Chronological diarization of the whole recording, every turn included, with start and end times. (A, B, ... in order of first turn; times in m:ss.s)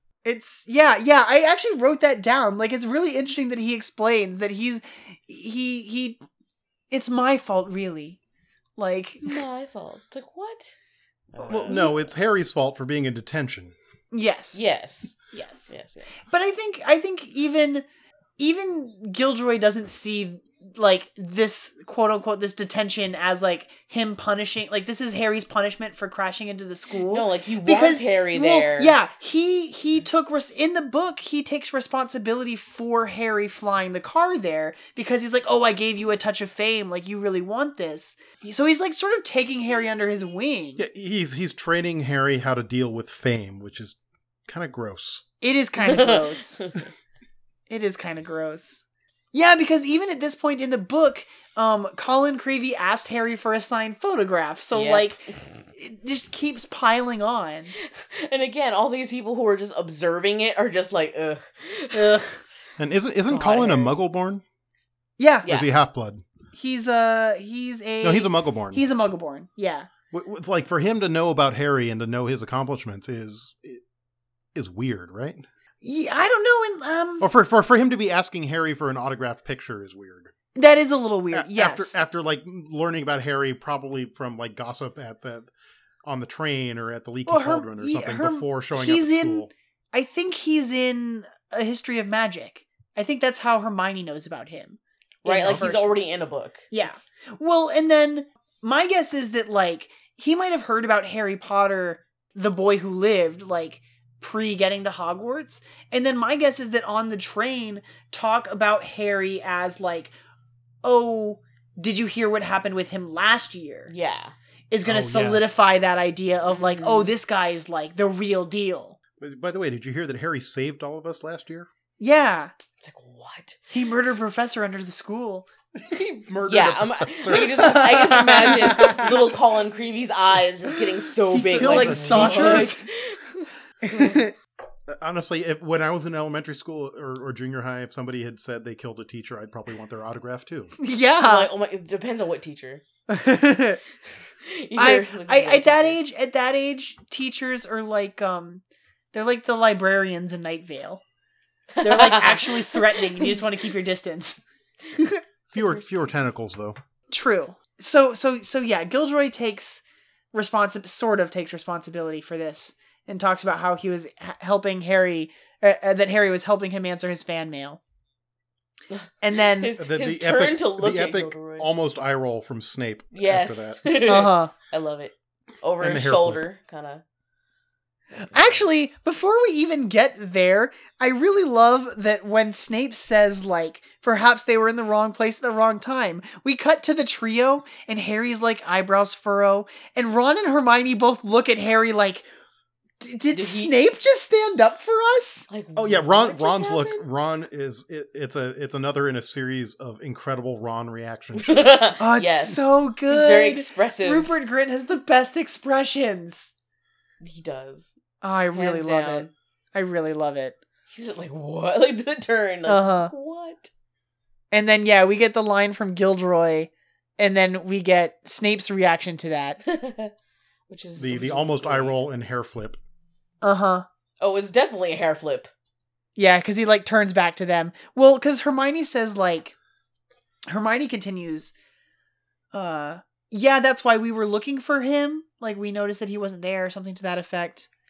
0:00.2-0:06.2 A
0:06.9-0:08.2 A
0:08.8-0:09.4 A
0:09.2-0:10.7 B
0:11.3-0:11.9 B
0:11.4-0:13.7 C
0:11.7-0:12.0 A
0:14.1-0:14.6 A
0:14.5-0:15.2 B
0:15.3-0:15.7 A
0:15.7-0:16.1 B
0:16.3-0:17.8 A
0:18.4-0:40.8 A
0:27.1-0:29.0 B
0:40.8-0:45.2 C
0:45.4-0:46.6 A
0:45.8-0:46.8 B
0:47.7-0:48.8 A
0:49.3-0:55.2 A
0:54.7-0:55.4 B
0:55.8-0:57.7 A
0:57.8-1:02.3 B
1:01.9-1:02.4 A
1:02.8-1:04.4 C
1:03.3-1:03.9 A
1:05.2-1:05.5 A
1:05.4-1:05.7 B
1:05.4-1:06.2 C
1:06.5-1:09.9 A
1:08.0-1:08.8 C
1:10.1-1:13.8 C
1:14.5-1:15.4 C
1:15.8-1:17.3 A
1:17.2-1:20.3 C
1:20.5-1:21.9 A
1:21.3-1:25.5 C
1:26.0-1:29.5 C
1:27.3-1:36.0 A
1:35.2-1:36.7 B
1:36.7-1:50.1 A
1:50.8-1:53.9 A
1:53.9-1:54.3 B
1:54.7-1:59.0 A
1:54.8-1:55.4 C
1:56.5-1:57.1 B
1:59.2-2:01.7 C
2:02.0-2:02.5 A
2:02.8-2:03.6 B
2:03.7-2:05.4 A
2:05.7-2:09.1 C
2:06.5-2:14.2 B
2:07.6-2:09.2 A
2:11.3-2:12.7 C
2:11.3-2:12.8 A
2:13.8-2:14.3 A
2:14.9-2:20.7 C
2:20.8-2:21.5 A
2:21.2-2:22.8 B
2:23.1-2:23.8 A
2:24.4-2:26.0 B
2:24.8-2:28.6 A
2:29.1-2:31.0 A
2:31.7-2:33.4 B
2:31.8-2:35.2 A
2:35.5-2:36.8 C
2:35.6-2:35.9 B
2:37.1-2:47.8 A
2:48.9-2:51.7 B
2:49.2-2:49.7 A
2:49.7-2:53.8 C
2:53.1-2:57.0 B
2:54.0-2:54.5 A
2:55.8-2:56.4 C
2:58.2-3:12.2 A
3:13.0-3:15.5 A
3:13.3-3:13.7 B
3:15.5-3:17.0 B
3:15.8-3:21.9 C
3:21.3-3:24.3 B
3:22.0-3:26.5 A
3:27.2-3:27.9 B
3:28.2-3:30.6 A
3:28.5-3:29.3 B
3:30.9-3:33.7 B
3:32.6-3:33.1 A
3:34.5-3:39.6 A
3:39.6-3:40.1 B
3:40.7-3:42.0 B
3:41.0-3:42.8 C
3:43.4-3:43.8 A
3:44.2-3:45.5 B
3:46.2-3:49.5 A
3:50.5-3:51.5 A
3:52.5-3:57.7 A